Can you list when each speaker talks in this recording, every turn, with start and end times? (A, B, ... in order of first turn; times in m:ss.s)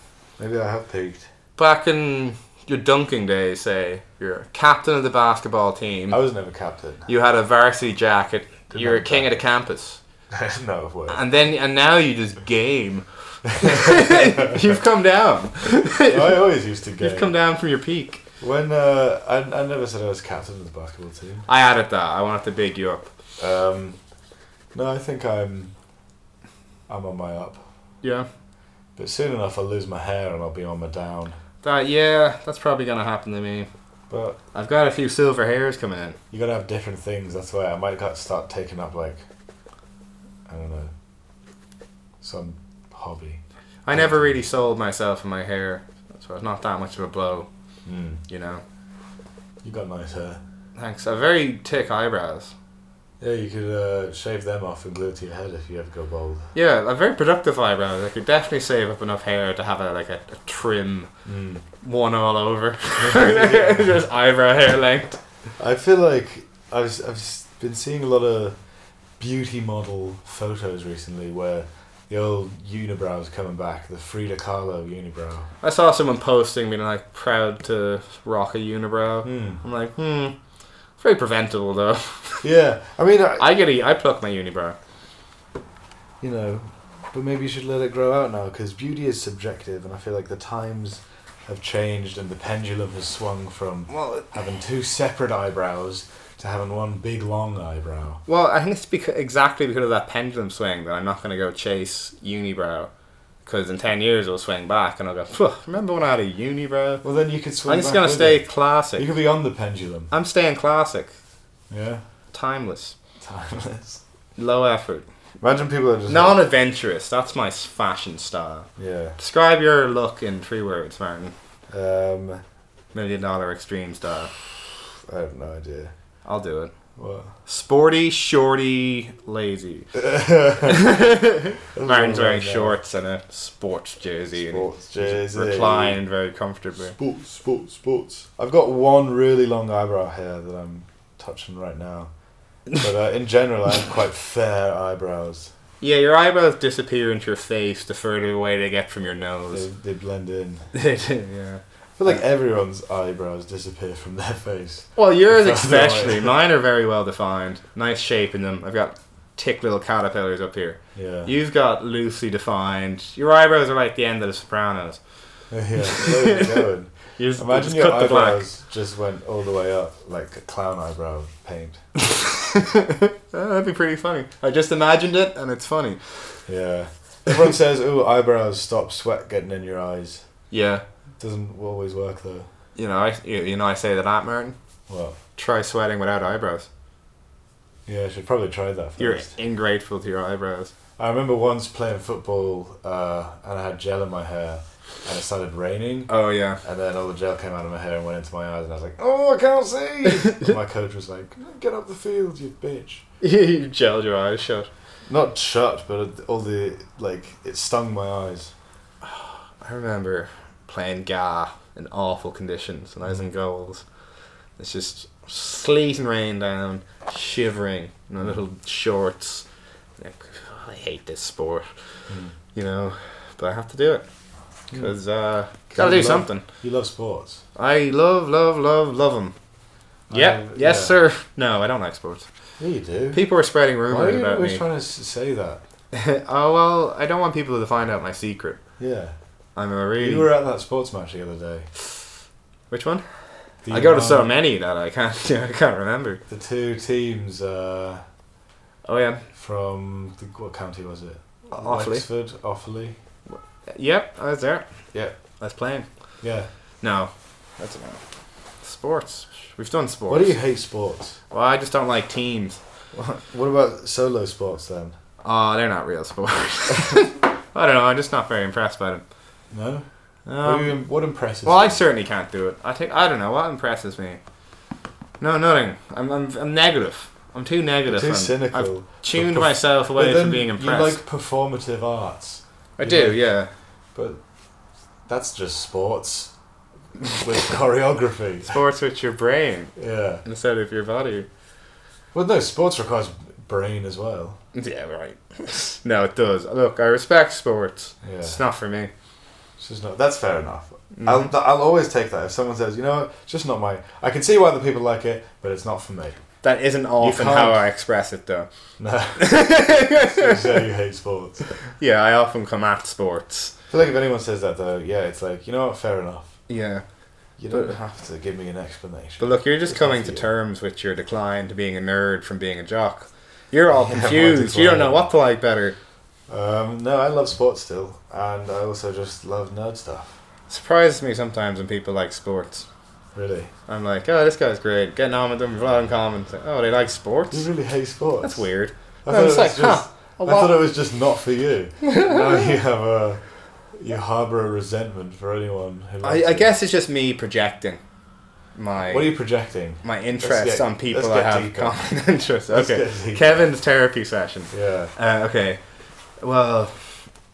0:00.4-0:01.3 A
0:01.6-0:06.2 B
0:06.1-0:07.1 A
0:07.0-0:10.0 B
0:08.7-0:09.3 A
0:10.3-0:11.2 A
0:11.1-0:16.4 B
0:13.6-0:14.6 A
0:16.1-0:17.3 A
0:17.0-0:18.2 B
0:18.4-0:21.5 A
0:21.5-0:23.1 B
0:23.4-0:24.0 A
0:24.7-0:25.7 A
0:26.9-0:27.6 A
0:28.0-0:28.3 B
0:29.0-0:31.4 A
0:31.6-0:33.7 B
0:34.1-0:34.4 A
0:34.5-0:36.2 B
0:36.3-0:39.2 A
0:40.5-0:40.9 A
0:42.2-0:43.4 A
0:43.8-0:47.5 B
0:43.9-0:44.4 A
0:47.8-0:48.2 A
0:48.3-0:48.6 B
0:49.6-0:50.4 A
0:50.8-0:52.5 B
0:53.2-0:56.5 A
0:56.5-1:01.1 B
1:01.2-1:01.6 A
1:01.8-1:05.2 B
1:03.0-1:04.0 A
1:05.6-1:08.6 A
1:09.2-1:15.5 A
1:15.6-1:20.4 B
1:19.2-1:19.6 A
1:21.0-1:22.4 B
1:22.4-1:23.4 A
1:23.4-1:24.8 B
1:26.2-1:38.2 A
1:33.9-1:34.3 B
1:38.2-1:42.9 B
1:43.4-1:47.0 B
1:47.0-1:50.1 A
1:47.6-1:49.1 B
1:50.1-1:51.1 B
1:51.7-1:52.0 A
1:52.3-1:52.9 B
1:53.2-1:54.0 A
1:54.4-1:55.1 B
1:55.4-1:56.4 A
1:56.1-2:01.3 B
1:58.8-1:59.2 A
2:01.7-2:02.4 A
2:02.9-2:04.3 B
2:05.0-2:05.9 A
2:06.2-2:06.7 B
2:07.0-2:07.3 A
2:07.4-2:09.9 B
2:09.9-2:10.9 A
2:10.6-2:17.0 B
2:11.7-2:12.8 A
2:14.4-2:16.0 A
2:16.8-2:22.1 A
2:22.7-2:25.5 A
2:25.8-2:29.7 B
2:29.5-2:30.7 A
2:30.7-2:32.2 B
2:32.0-2:36.3 A
2:35.0-2:45.0 B
2:40.9-2:41.3 A
2:45.5-2:51.8 A
2:45.8-2:48.4 B
2:52.1-2:56.4 B
2:56.4-3:00.2 A
3:00.5-3:00.8 B
3:01.2-3:02.5 A
3:02.8-3:04.6 B
3:04.9-3:05.2 A
3:05.4-3:06.7 B
3:07.8-3:09.3 A
3:09.0-3:10.7 B
3:11.0-3:16.1 A
3:16.1-3:16.6 B
3:16.6-3:23.0 A
3:23.2-3:24.7 B
3:25.1-3:28.5 A
3:29.0-3:33.8 B
3:34.6-3:39.4 B
3:40.0-3:41.7 B
3:42.1-3:42.3 A
3:42.5-3:44.0 B
3:44.7-3:45.0 A
3:44.7-3:46.4 B
3:45.7-3:47.4 A
3:47.6-3:49.3 B
3:50.1-3:51.0 A
3:50.1-3:52.3 B
3:52.6-3:53.2 A
3:53.1-3:54.6 B
3:53.9-3:55.6 A
3:55.9-3:58.6 B
3:58.8-3:59.1 A
3:59.6-4:00.3 B
4:00.0-4:01.7 A
4:02.7-4:06.2 B
4:03.6-4:04.3 A
4:06.3-4:08.0 A
4:08.8-4:09.2 B
4:09.3-4:13.0 A
4:11.5-4:12.0 B
4:13.3-4:14.7 B
4:15.4-4:15.9 B
4:16.2-4:16.5 A
4:16.8-4:18.0 B
4:18.6-4:20.4 B
4:20.1-4:21.2 A
4:21.3-4:22.6 B
4:22.9-4:24.9 A
4:25.2-4:29.0 B
4:29.5-4:29.8 A
4:30.2-4:30.8 B
4:30.4-4:31.8 A
4:31.4-4:34.2 B
4:35.2-4:41.0 B
4:37.9-4:43.2 A
4:42.8-4:43.5 B
4:43.9-4:44.2 A
4:45.1-4:46.3 A
4:47.1-4:48.6 A
4:48.5-4:51.3 B
4:49.8-4:50.2 A
4:52.1-4:54.4 A
4:54.5-4:58.9 B
4:58.0-4:58.4 A
4:59.6-5:06.2 A
5:00.9-5:01.3 B
5:06.4-5:08.5 B
5:07.0-5:07.6 A
5:08.8-5:11.5 A
5:09.2-5:10.6 B
5:11.8-5:13.5 B
5:13.7-5:16.4 A
5:16.5-5:16.8 B
5:17.4-5:20.3 A
5:17.5-5:17.7 B
5:19.2-5:25.8 B
5:23.7-5:25.1 A
5:26.3-5:30.2 A
5:30.5-5:32.6 B
5:33.1-5:33.5 A
5:33.7-5:37.5 B
5:37.3-5:38.5 A
5:38.2-5:40.6 B
5:39.0-5:46.5 A
5:41.8-5:42.3 B
5:46.0-5:47.8 B
5:48.5-5:49.1 B
5:48.9-5:51.8 A
5:49.8-5:55.6 B
5:52.5-5:53.5 A
5:54.5-5:54.9 A
5:56.2-5:57.1 B